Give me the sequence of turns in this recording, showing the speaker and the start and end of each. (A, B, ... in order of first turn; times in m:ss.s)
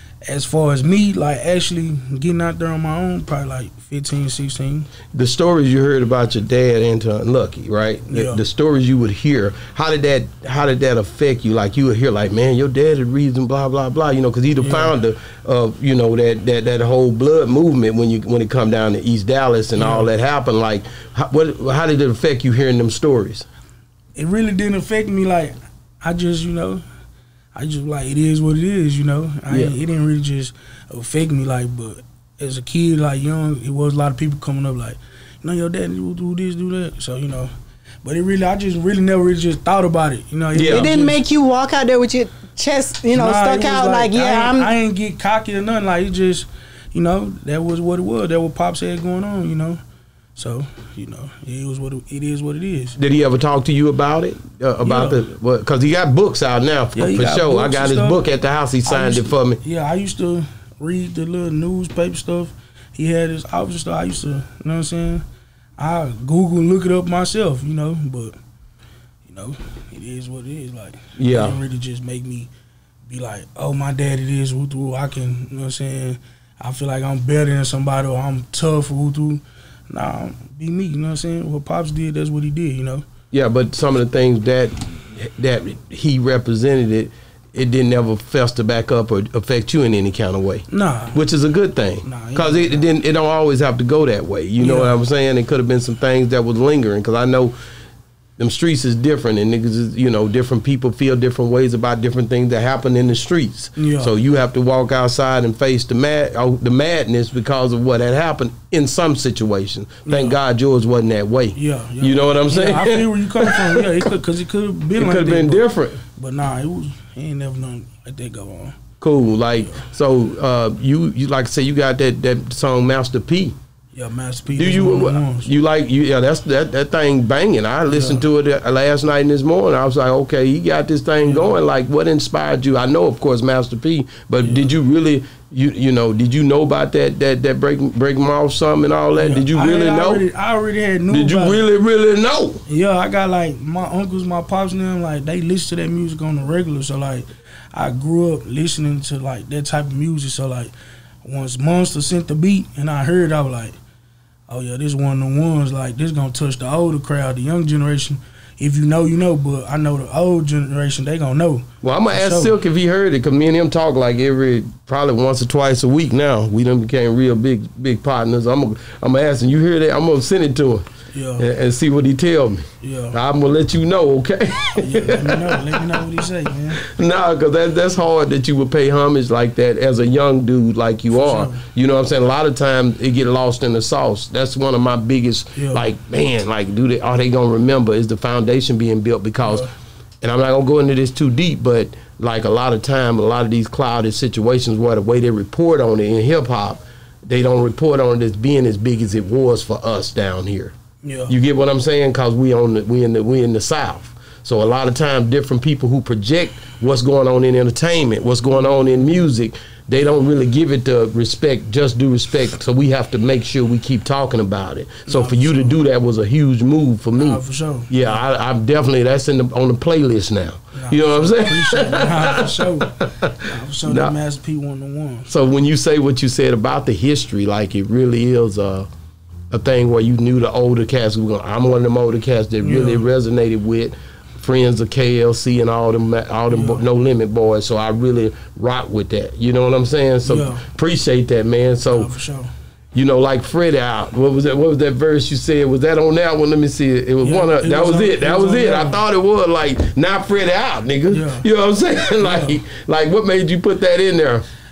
0:00.2-0:04.9 A
0:05.1-0:23.5 B
0:08.1-0:08.4 A
0:14.6-0:15.0 A
0:19.8-0:20.1 A
0:24.2-0:26.8 A
0:27.6-0:41.2 A
0:29.5-0:29.8 B
0:40.5-0:40.9 B
0:40.7-0:44.7 C
0:43.1-0:49.8 A
0:50.4-0:53.0 A
0:53.0-0:59.6 B
0:54.8-0:55.2 A
0:57.0-0:58.2 A
0:58.8-1:05.2 A
1:05.8-1:08.4 A
1:09.2-1:12.5 A
1:11.2-1:11.6 B
1:13.1-1:23.0 A
1:23.3-1:37.6 B
1:30.7-1:31.2 A
1:32.0-1:32.9 A
1:34.6-1:35.0 A
1:38.4-1:54.1 B
1:43.8-1:44.1 A
1:50.1-1:50.4 A
1:51.6-1:55.6 A
1:55.0-1:56.0 B
1:56.2-1:58.8 A
1:59.0-2:03.6 B
1:59.6-1:59.9 A
2:03.9-2:05.5 A
2:04.5-2:20.3 B
2:07.9-2:08.2 A
2:11.2-2:11.6 A
2:14.4-2:14.7 A
2:19.2-2:21.6 A
2:21.1-2:22.6 B
2:22.7-2:30.7 A
2:31.2-2:33.8 A
2:34.5-2:42.5 A
2:41.8-2:56.0 B
2:51.1-2:51.5 A
2:52.8-2:53.2 A
2:54.8-2:56.8 A
2:56.8-3:09.7 B
3:01.1-3:01.6 A
3:05.6-3:05.8 A
3:09.4-3:09.7 A
3:10.2-3:20.8 B
3:21.0-3:21.4 A
3:21.3-3:44.2 B
3:35.1-3:35.8 A
3:37.2-3:38.1 A
3:40.7-3:45.3 A
3:45.3-3:48.9 B
3:49.5-4:02.1 B
3:52.6-3:53.1 A
3:56.5-3:56.8 A
4:00.2-4:00.7 A
4:01.9-4:02.5 A
4:02.9-4:14.4 B
4:07.2-4:09.0 A
4:11.1-4:11.5 A
4:12.2-4:12.6 A